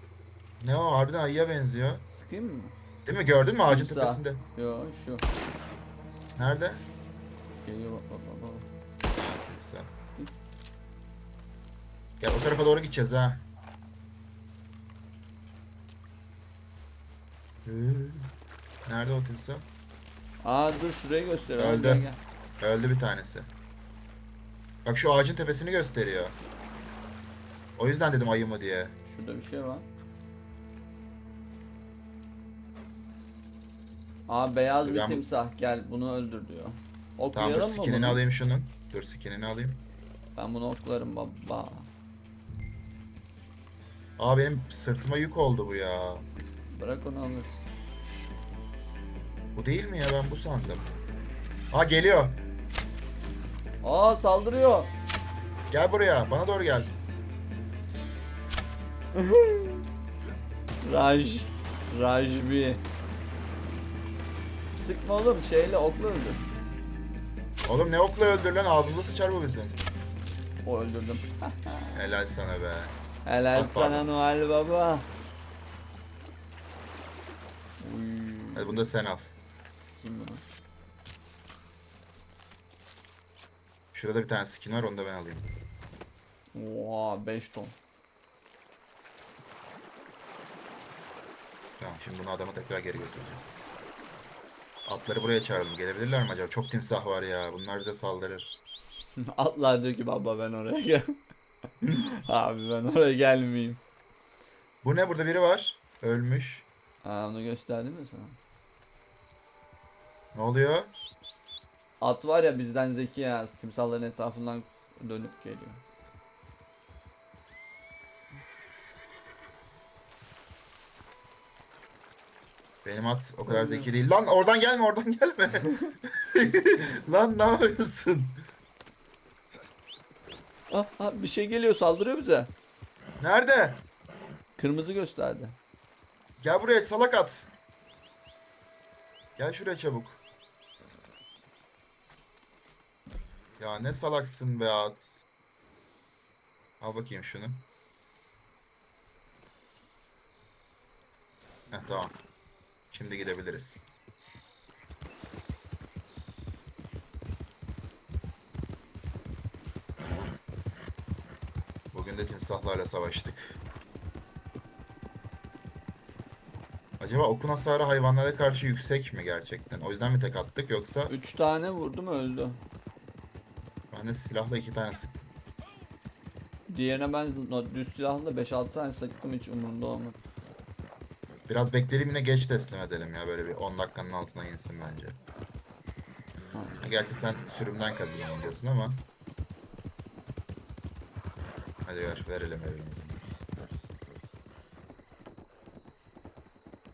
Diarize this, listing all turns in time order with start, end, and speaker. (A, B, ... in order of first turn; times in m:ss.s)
0:00.6-0:02.0 A
0:02.1-0:02.7 B
0:03.0-0:04.4 A
0:03.6-0:05.2 B
0:06.4-0:06.8 A
0:07.6-0:08.7 B
0:09.1-0:09.9 A
0:12.2-0:13.4 A
0:17.6-0:18.3 A
0:18.8-0:19.7 A
0:20.4-0:22.2 B
0:21.6-0:22.1 A
0:22.6-0:23.5 A
0:24.8-0:26.4 A
0:27.8-0:28.9 A
0:29.1-0:29.8 B
0:34.3-0:38.2 B
0:34.8-0:35.2 A
0:37.3-0:39.8 A
0:40.4-0:41.9 B
0:44.2-0:46.2 A
0:46.7-0:47.6 B
0:49.5-0:50.9 A
0:51.7-0:52.4 A
0:53.8-0:54.9 B
0:55.7-0:56.9 A
0:59.1-0:59.8 B
1:00.8-1:02.8 B
1:04.7-1:06.4 B
1:07.6-1:09.8 A
1:10.6-1:11.9 B
1:11.9-1:13.0 A
1:13.2-1:15.1 B
1:13.5-1:14.0 A
1:17.8-1:18.9 B
1:18.5-1:19.3 A
1:19.8-1:20.4 B
1:23.9-1:25.5 A
1:26.5-1:27.8 B
1:31.8-1:33.6 A
1:34.8-1:38.6 A
1:39.2-1:41.2 B
1:41.9-1:43.8 B
1:44.8-1:46.6 A
1:47.0-1:48.4 B
1:50.3-1:50.9 A
1:52.0-1:55.8 B
2:02.8-2:08.4 A
2:03.4-2:03.9 B
2:10.7-2:12.5 B
2:13.2-2:13.8 A
2:14.6-2:15.6 B
2:16.4-2:17.5 A
2:19.4-2:20.2 A
2:23.6-2:25.2 A
2:26.8-2:27.6 A
2:31.7-2:32.1 A
2:32.9-2:34.0 A
2:41.9-2:43.6 A
2:47.0-2:51.1 A
2:51.1-2:52.6 B
2:53.9-2:55.2 A
2:56.7-3:00.2 B
3:01.5-3:05.2 A
3:06.5-3:06.8 B
3:06.8-3:09.0 A
3:11.8-3:13.2 A